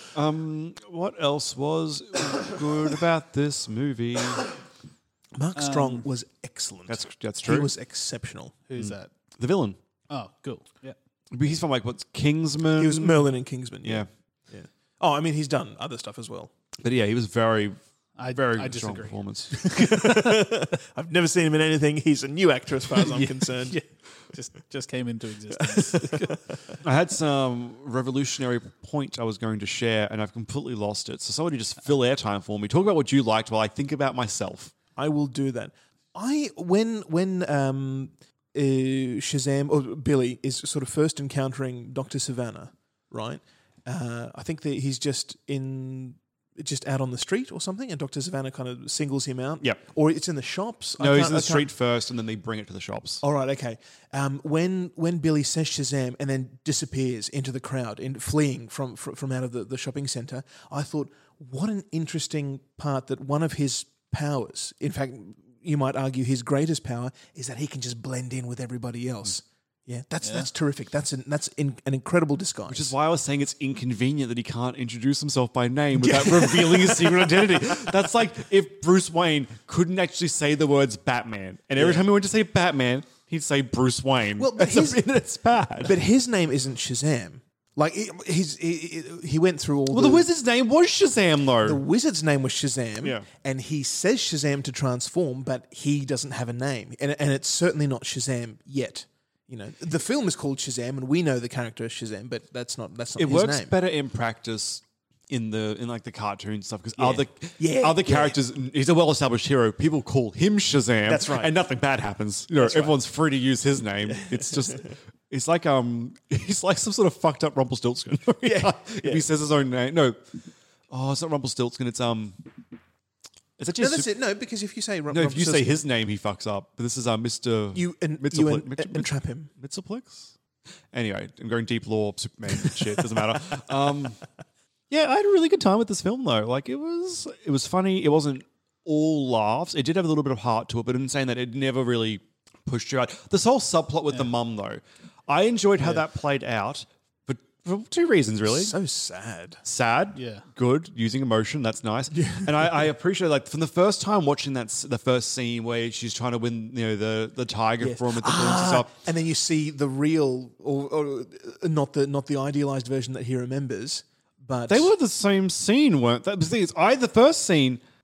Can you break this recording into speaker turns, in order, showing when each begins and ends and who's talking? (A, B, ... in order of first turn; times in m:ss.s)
0:00.1-0:04.5 A
0:05.3-0:08.6 B
0:05.6-0:06.1 C
0:06.9-0:07.7 A
0:08.7-0:09.1 C
0:08.8-0:09.8 A
0:10.1-0:11.0 C
0:11.3-0:13.2 A
0:12.8-0:16.5 B
0:13.8-0:14.1 A
0:16.8-0:17.8 A
0:18.2-0:20.3 C
0:18.3-0:19.7 A
0:19.6-0:23.8 B
0:23.0-0:26.4 C
0:25.6-0:26.5 B
0:26.8-0:34.7 A
0:35.0-0:51.7 B
0:51.0-0:53.2 A
0:53.2-1:12.9 B
1:10.2-1:10.5 C
1:12.7-1:26.0 A
1:15.9-1:17.5 B
1:21.8-1:22.0 B
1:24.4-1:25.0 B
1:25.8-1:30.3 B
1:29.9-1:31.8 A
1:31.6-1:43.7 B
1:43.2-2:00.2 A
1:47.0-1:48.4 B
1:51.0-1:51.5 B
1:52.5-1:53.0 B
1:54.1-1:54.8 B
1:58.4-1:59.2 B
2:00.9-2:02.4 A
2:03.6-2:04.1 A
2:03.8-2:05.8 B
2:05.1-2:10.3 A
2:07.7-2:09.5 B
2:10.9-2:14.2 A
2:12.6-2:13.2 B
2:14.9-2:28.7 A
2:28.4-2:29.6 B
2:29.6-2:38.9 A
2:30.1-2:30.4 C
2:32.1-2:32.7 B
2:37.8-2:44.9 B
2:44.7-2:47.8 A